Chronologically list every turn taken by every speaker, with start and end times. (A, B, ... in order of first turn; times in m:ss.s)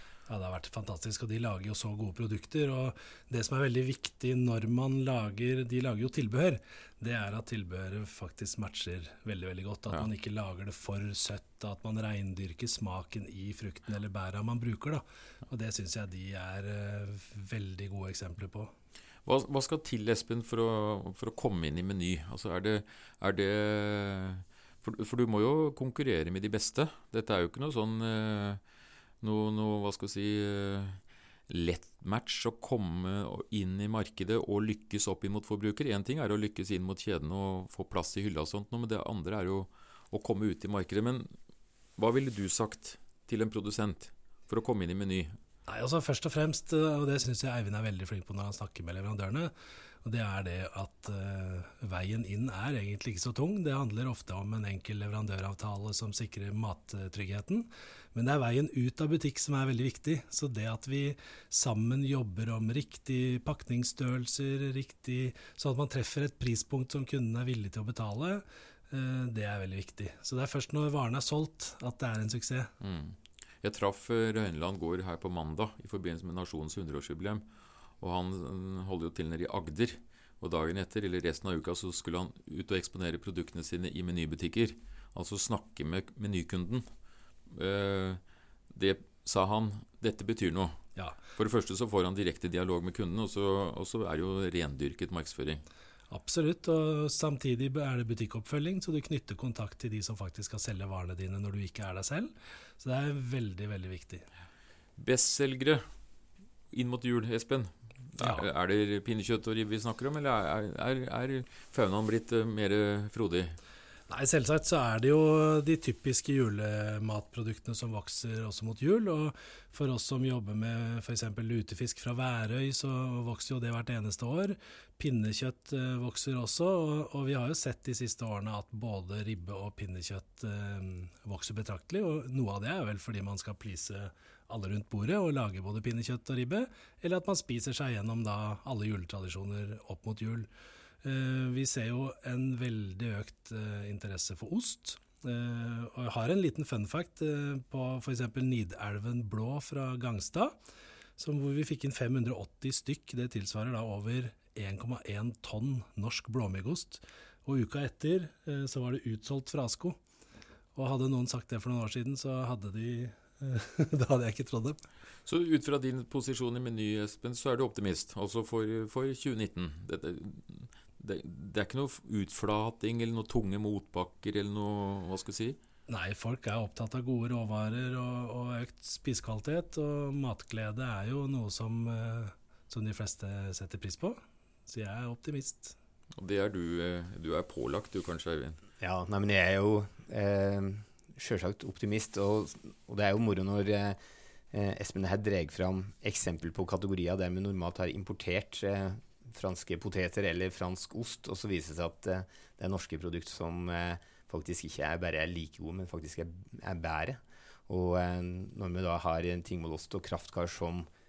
0:00.3-0:18.7 A
0:19.2-0:28.6 B
0:29.2-0:41.3 B
0:42.0-0:45.4 B
0:45.7-0:49.5 A
0:50.0-1:12.7 A
1:12.8-1:17.4 B
1:18.0-1:26.8 B
1:27.5-1:30.8 B
1:31.3-1:35.6 B
1:36.1-1:44.2 A
1:45.0-1:45.8 B
1:46.7-1:53.6 B
1:48.2-1:48.5 A
1:54.1-2:20.5 A
2:21.0-2:30.5 A
2:31.2-2:40.0 A
2:40.7-2:44.8 A
2:45.2-2:55.6 B
2:55.9-3:05.7 A
3:06.1-3:08.6 B
3:08.8-3:14.0 C
3:14.5-3:30.9 C